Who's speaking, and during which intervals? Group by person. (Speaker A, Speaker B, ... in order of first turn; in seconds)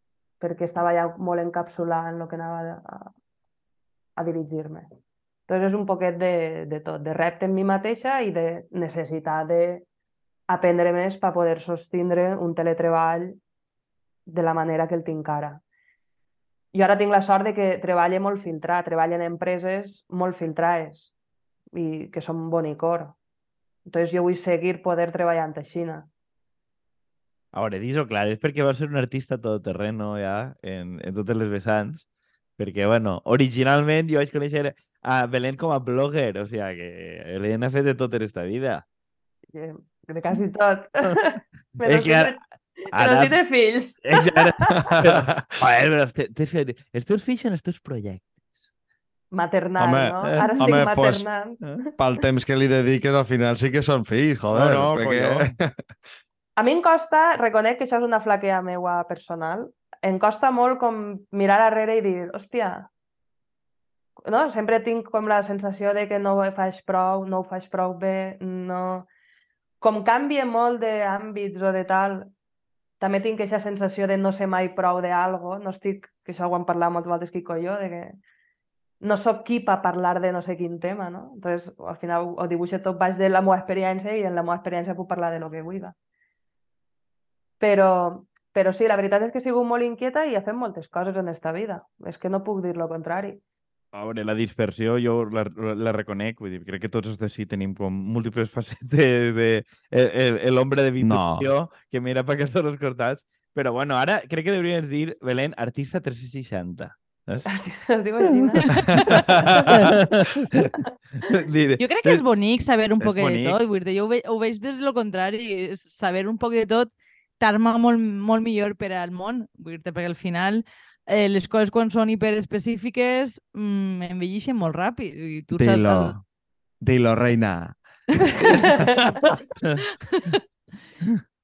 Speaker A: 0.4-3.1, 4.2-4.9, 5.5-9.9, 10.5-13.4, 14.3-15.6, 16.7-21.1, 21.7-23.2, 23.9-26.1, 39.5-42.4, 42.9-45.0, 49.3-51.7, 56.6-62.9, 64.2-69.1, 69.8-72.3, 73.0-78.2, 79.0-86.0, 87.6-93.4, 107.5-108.7
Speaker B: 27.5-32.1, 32.6-38.9, 41.8-42.4, 42.9-43.4, 44.0-48.7, 50.3-50.7, 54.5-55.5, 93.9-107.5, 109.1-112.2, 113.0-113.6
Speaker C: 44.9-45.6, 49.8-51.3, 52.0-55.7, 101.0-101.5, 109.1-109.7, 125.5-126.2, 126.8-127.8, 128.4-128.9
Speaker D: 108.5-109.3, 111.8-126.2, 128.3-128.7, 130.0-130.4